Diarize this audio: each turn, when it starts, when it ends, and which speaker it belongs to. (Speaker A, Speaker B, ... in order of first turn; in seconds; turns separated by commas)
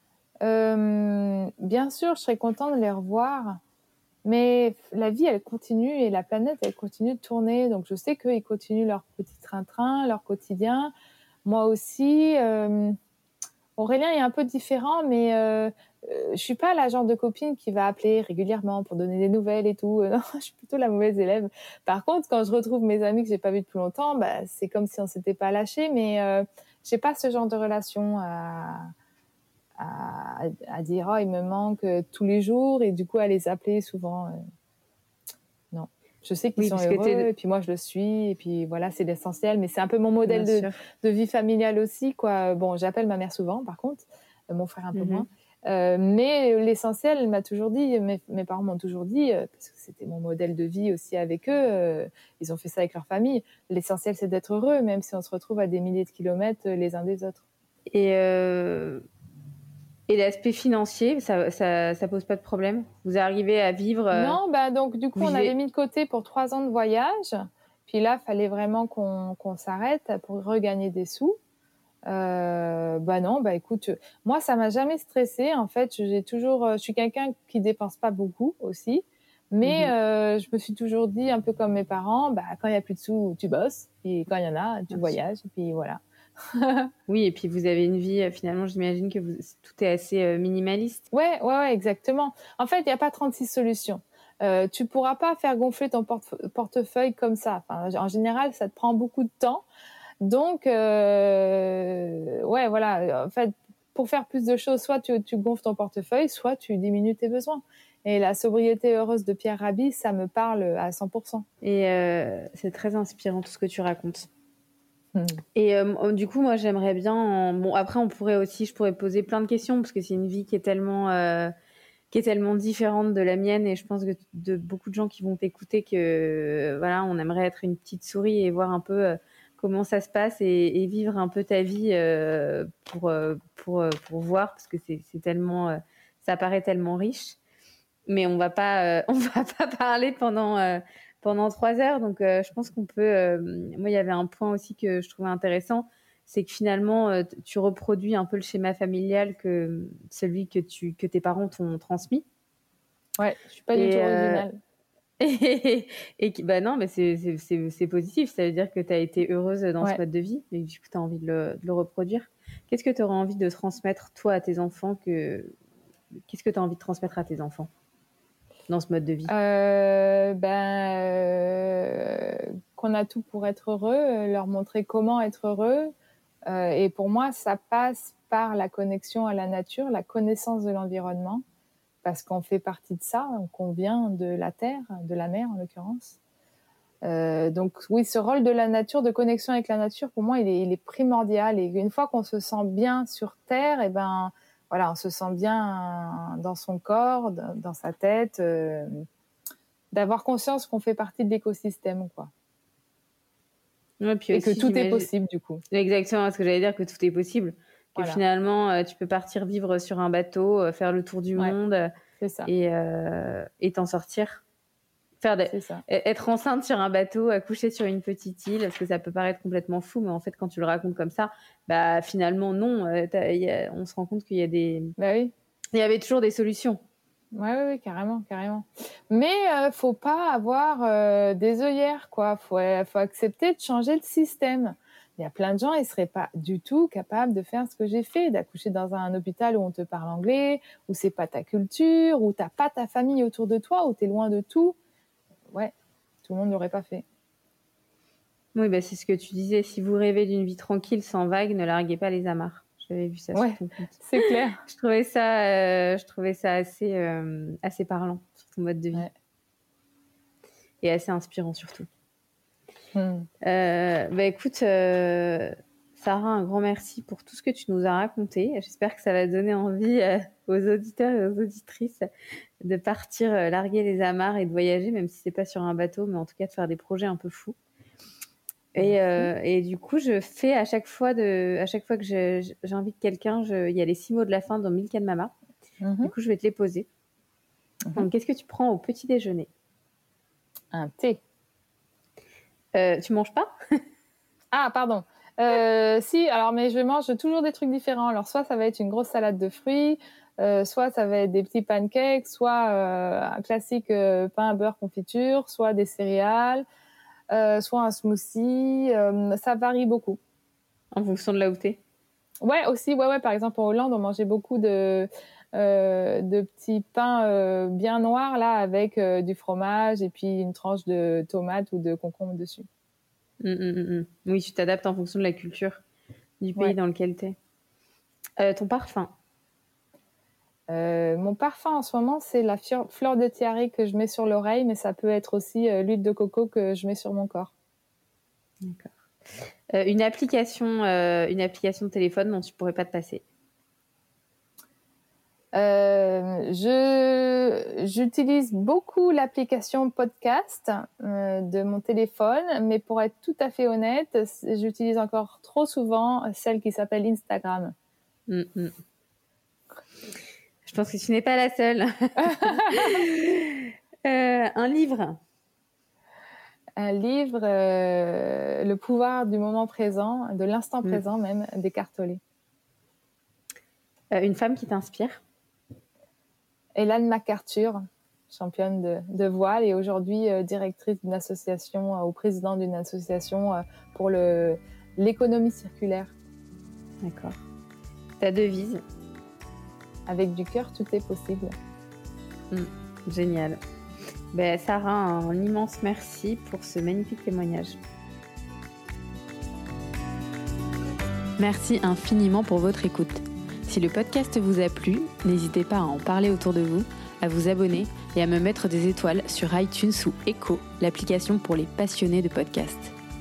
Speaker A: 0.4-3.6, Speaker A: 4.2-10.9, Speaker A: 11.4-13.0, Speaker A: 13.8-28.9, Speaker A: 29.8-34.4, Speaker A: 35.7-57.4, Speaker B: 36.6-37.3, Speaker B: 40.2-40.8, Speaker B: 44.9-45.3, Speaker B: 57.9-59.0, Speaker B: 60.1-64.4, Speaker A: 64.1-71.4, Speaker B: 65.2-65.5, Speaker A: 72.1-86.9, Speaker B: 79.6-79.9, Speaker B: 84.9-85.2, Speaker B: 87.1-91.0, Speaker A: 91.1-99.7, Speaker A: 100.2-111.5, Speaker B: 111.6-114.3, Speaker B: 115.5-121.5, Speaker B: 122.1-137.4, Speaker B: 138.1-152.3, Speaker A: 153.2-154.6, Speaker B: 153.7-154.5, Speaker B: 155.2-165.5, Speaker B: 166.3-167.7, Speaker B: 168.7-169.3, Speaker A: 169.3-175.9, Speaker A: 176.5-181.4, Speaker A: 182.0-186.2, Speaker A: 187.0-199.1, Speaker A: 199.9-202.3, Speaker B: 204.0-205.1, Speaker A: 204.3-205.6, Speaker B: 205.7-211.9, Speaker A: 208.0-208.2, Speaker A: 212.2-212.5, Speaker B: 212.5-214.4, Speaker B: 215.2-224.9, Speaker A: 215.5-215.8, Speaker A: 225.0-225.3, Speaker B: 225.7-226.8, Speaker A: 227.3-244.8, Speaker A: 245.5-247.1, Speaker B: 248.6-259.1, Speaker A: 253.3-254.6, Speaker B: 260.8-261.9, Speaker A: 262.9-263.3, Speaker B: 263.4-272.1, Speaker B: 272.6-277.6, Speaker B: 278.8-285.3, Speaker A: 278.8-279.3, Speaker A: 285.8-286.1, Speaker B: 286.0-286.9, Speaker B: 287.9-289.5, Speaker A: 290.7-291.2, Speaker B: 292.7-293.5, Speaker A: 294.5-306.6, Speaker A: 307.3-310.2, Speaker B: 310.9-311.8, Speaker A: 312.4-322.7, Speaker B: 323.4-325.8, Speaker B: 326.4-327.4, Speaker B: 328.4-329.1, Speaker A: 330.7-337.5, Speaker B: 338.6-338.9, Speaker B: 339.7-343.2, Speaker A: 345.5-357.7, Speaker B: 358.3-358.8, Speaker B: 360.6-365.2, Speaker A: 362.3-363.0, Speaker A: 366.8-372.2, Speaker B: 374.1-375.2, Speaker A: 376.8-386.1, Speaker B: 387.0-387.4, Speaker B: 388.2-388.8, Speaker A: 390.1-391.5, Speaker B: 392.5-393.6, Speaker B: 394.3-397.8, Speaker C: 401.4-412.9